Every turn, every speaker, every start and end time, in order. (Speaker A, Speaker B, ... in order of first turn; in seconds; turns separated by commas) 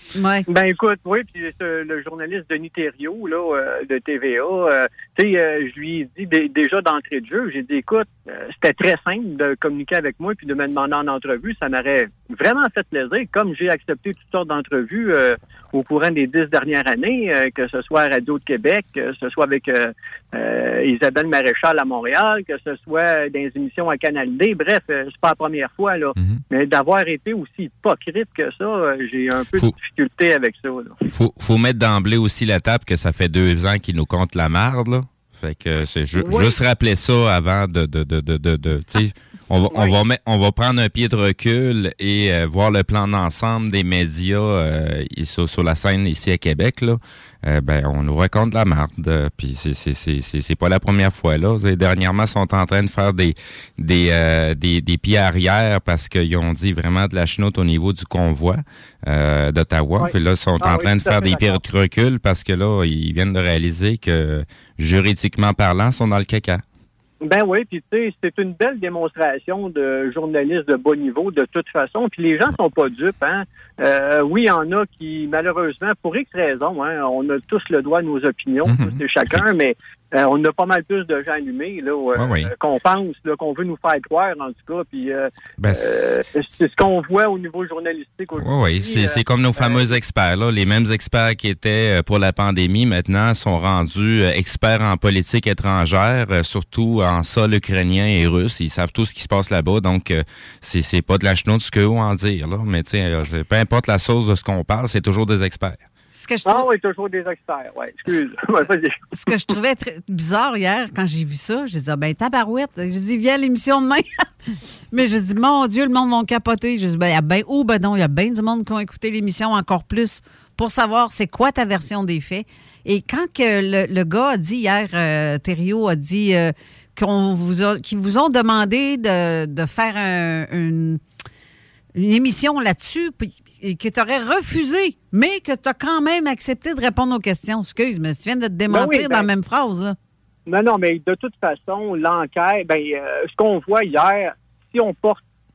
Speaker A: 0.1-0.5, Speaker B: 0.5-31.0, Speaker C: 31.1-66.6, Speaker B: 36.2-36.6, Speaker B: 60.0-61.6, Speaker B: 67.2-89.8, Speaker C: 78.7-79.5, Speaker C: 82.2-82.5, Speaker C: 85.6-86.2, Speaker C: 88.4-105.8, Speaker A: 106.1-106.7, Speaker B: 106.5-109.1, Speaker A: 109.1-114.0, Speaker A: 114.9-131.0, Speaker A: 131.9-139.9, Speaker B: 138.7-139.3, Speaker B: 140.5-145.2